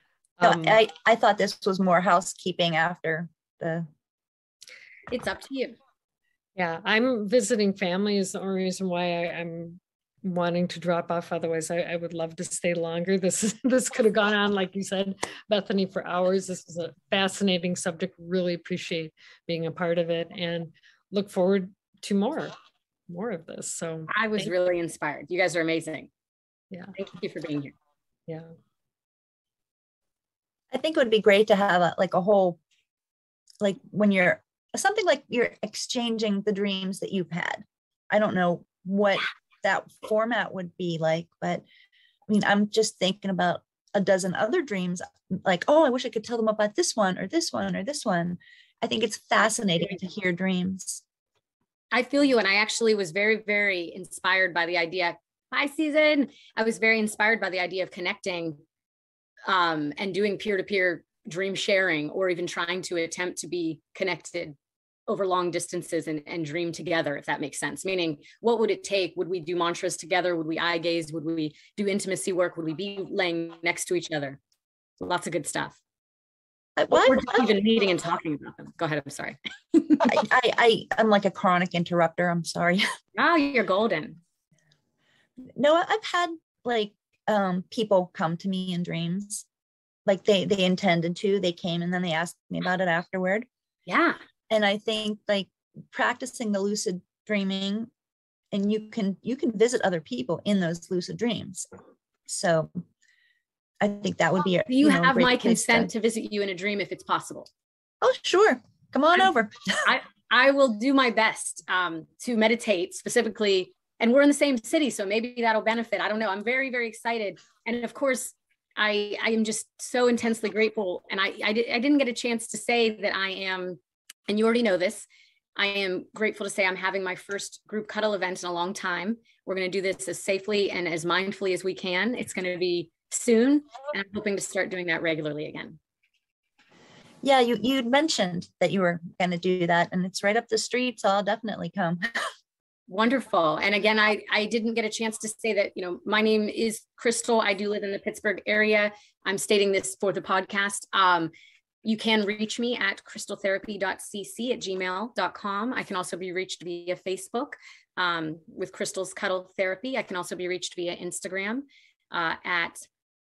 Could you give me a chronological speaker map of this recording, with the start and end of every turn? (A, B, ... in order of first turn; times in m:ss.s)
0:00.4-0:00.8 A
0:00.4-0:03.9 B
0:05.1-0:05.8 C
0:06.6-0:22.5 A
0:23.1-0:24.5 A
0:24.1-0:26.1 C
0:27.0-0:27.7 C
0:30.7-0:32.6 B
0:33.6-0:41.6 B
0:42.3-0:51.0 B
0:51.9-0:58.6 C
0:59.4-1:04.6 C
1:05.1-1:14.4 C
1:15.0-1:15.8 C
1:16.8-1:17.4 B
1:16.9-1:20.2 C
1:20.1-1:22.8 B
1:23.1-1:24.2 C
1:25.6-1:29.4 B
1:30.0-1:33.5 B
1:33.8-1:34.2 C
1:34.5-1:37.9 B
1:38.5-1:41.6 B
1:42.3-1:42.8 B
1:43.8-1:45.9 B
1:44.7-1:47.5 C
1:48.0-1:49.8 B
1:49.8-2:03.8 C
2:04.3-2:15.8 C
2:17.2-2:22.0 B
2:22.9-2:31.3 C
2:31.8-2:42.8 C